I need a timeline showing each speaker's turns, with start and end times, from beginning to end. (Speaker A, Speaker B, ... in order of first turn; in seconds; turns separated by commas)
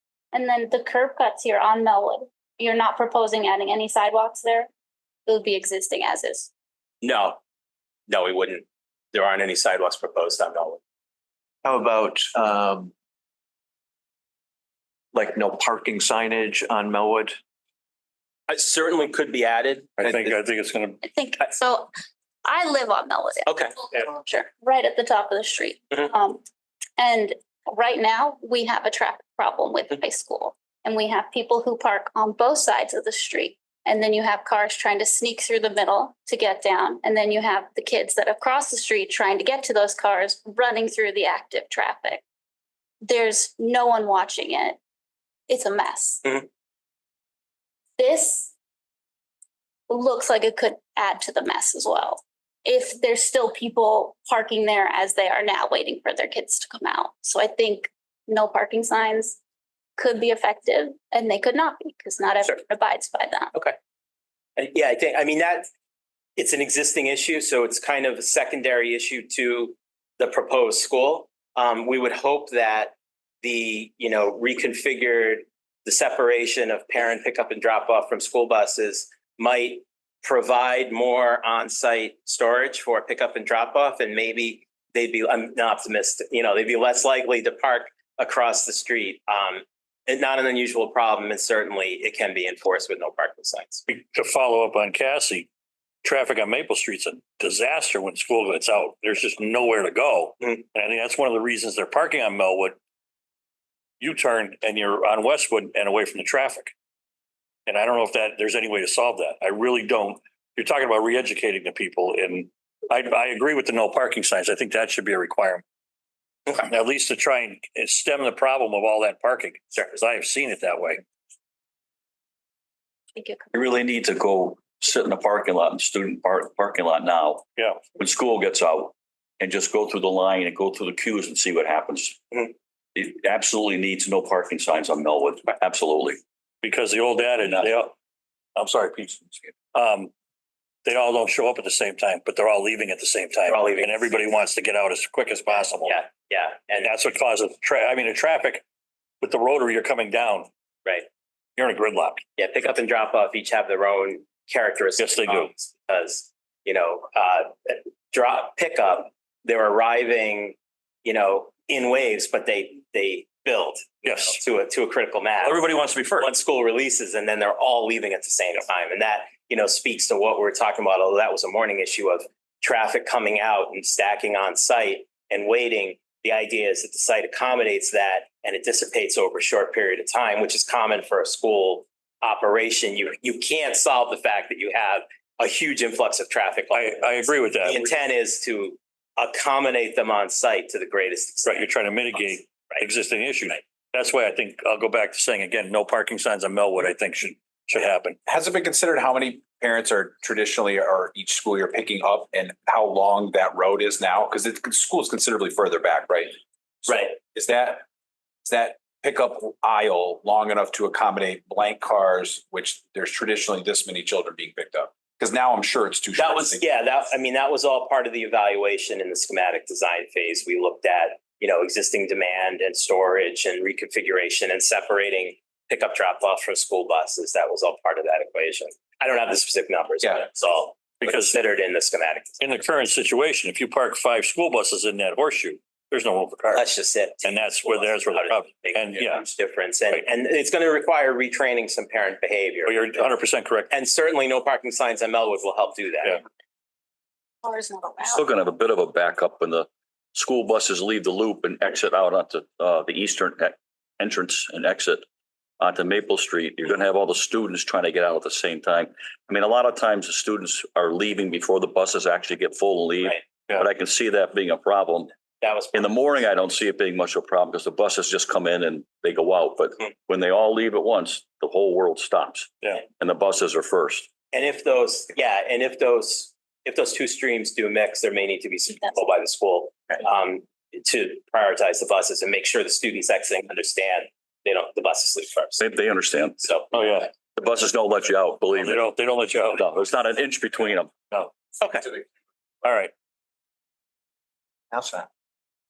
Speaker A: 0.3-4.7, Speaker A: 5.2-6.5, Speaker B: 7.0-7.4, Speaker B: 8.1-10.8, Speaker C: 11.6-12.9, Speaker C: 15.1-17.4, Speaker B: 18.5-19.9, Speaker D: 20.0-21.0, Speaker A: 21.0-21.9, Speaker A: 22.4-26.4, Speaker B: 23.4-23.8, Speaker A: 27.0-42.2, Speaker A: 43.0-44.8, Speaker A: 45.5-46.4, Speaker A: 48.0-48.5, Speaker A: 49.9-59.4, Speaker A: 60.0-63.6, Speaker B: 64.6-65.7, Speaker B: 66.4-93.8, Speaker D: 93.9-95.5, Speaker D: 96.0-102.8, Speaker D: 104.0-106.7, Speaker D: 107.7-115.6, Speaker D: 116.6-121.0, Speaker A: 123.1-123.5, Speaker E: 123.5-136.2, Speaker D: 127.6-127.8, Speaker D: 136.6-137.9, Speaker D: 138.6-140.1, Speaker D: 140.8-146.0, Speaker B: 143.5-144.1, Speaker B: 145.8-146.9, Speaker D: 146.8-148.6, Speaker D: 149.2-150.5, Speaker D: 151.6-152.2, Speaker B: 152.4-165.6, Speaker D: 155.0-155.5, Speaker D: 164.0-164.4, Speaker D: 165.4-166.3, Speaker B: 166.2-187.0, Speaker D: 186.7-187.9, Speaker B: 187.6-191.7, Speaker D: 191.4-198.2, Speaker F: 198.2-207.8, Speaker B: 206.9-207.1, Speaker F: 208.4-216.6, Speaker B: 216.2-232.4, Speaker D: 231.0-231.3, Speaker D: 232.4-236.7, Speaker B: 236.5-243.0, Speaker D: 237.2-239.2, Speaker D: 242.7-243.7, Speaker B: 243.7-246.2, Speaker A: 247.4-248.2, Speaker E: 248.0-255.0, Speaker E: 255.6-265.1, Speaker B: 265.4-265.9, Speaker E: 265.7-274.1, Speaker B: 274.3-285.6, Speaker E: 285.6-286.4, Speaker B: 286.4-286.7, Speaker D: 286.7-287.1, Speaker E: 287.4-288.8, Speaker D: 288.6-289.6, Speaker E: 289.5-290.9, Speaker B: 291.6-291.9, Speaker D: 292.6-292.9, Speaker C: 294.7-295.1